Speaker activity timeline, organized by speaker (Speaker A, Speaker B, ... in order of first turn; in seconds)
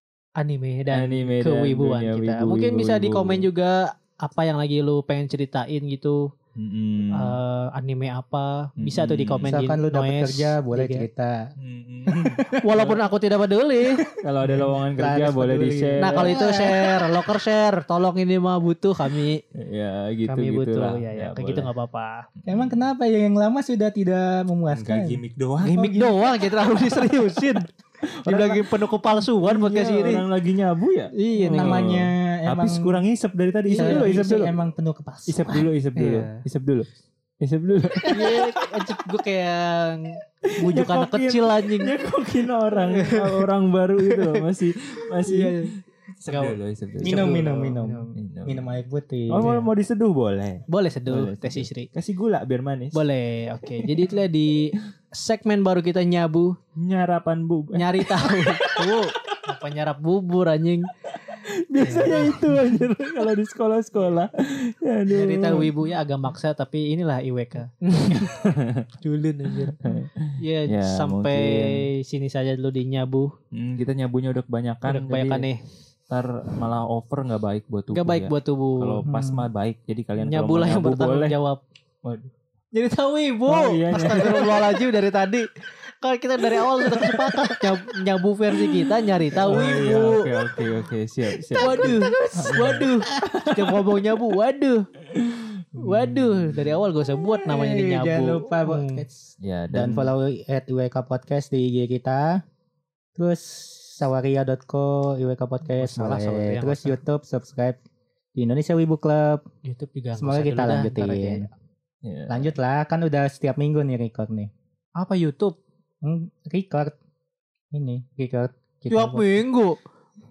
Speaker A: 0.4-6.3, 7.1-11.1, 12.6-14.0, 16.0-19.4, 20.3-22.2, 25.6-27.7, 28.3-30.2, 31.1-31.8, 33.7-34.2, 36.0-36.4, 38.1-41.9, 42.9-43.5, 44.0-44.5, 45.2-45.7, 46.3-48.1, 49.4-49.7, 50.7-51.9, 52.9-56.6, 57.8-60.9, 61.8-62.5, 65.1-68.3, 69.0-69.8, 70.4-73.3, 74.9-75.6, 77.9-79.0, 80.2-81.6, 82.7-85.5, 86.0-90.3, 91.6-94.9, 95.8-99.0, 105.7-107.0, 109.7-111.5, 115.0-115.6, 118.9-119.8
Speaker B: 0.9-3.5, 6.6-7.4, 8.8-9.6, 11.6-13.0, 14.2-16.4, 19.6-21.7, 24.7-26.1, 28.0-28.7, 29.4-34.5, 35.3-36.9, 37.4-38.7, 40.4-47.6, 48.1-48.8, 49.3-53.0, 53.8-54.1, 56.8-59.4, 61.3-65.7, 68.1-68.9, 69.7-71.8, 73.5-75.5, 76.1-81.4, 82.0-82.3, 83.5-84.7, 86.6-87.6, 89.4-93.8, 95.1-96.7, 99.4-100.1, 112.0-112.5
Speaker C: 9.5-11.5, 12.1-12.6, 14.4-17.2, 22.5-25.2, 31.4-33.0, 33.8-35.6, 47.0-49.5, 79.1-79.5, 91.6-91.9, 97.5-102.4, 103.2-107.8, 108.3-109.4, 110.2-111.5, 112.3-114.5, 116.0-117.0, 117.7-119.4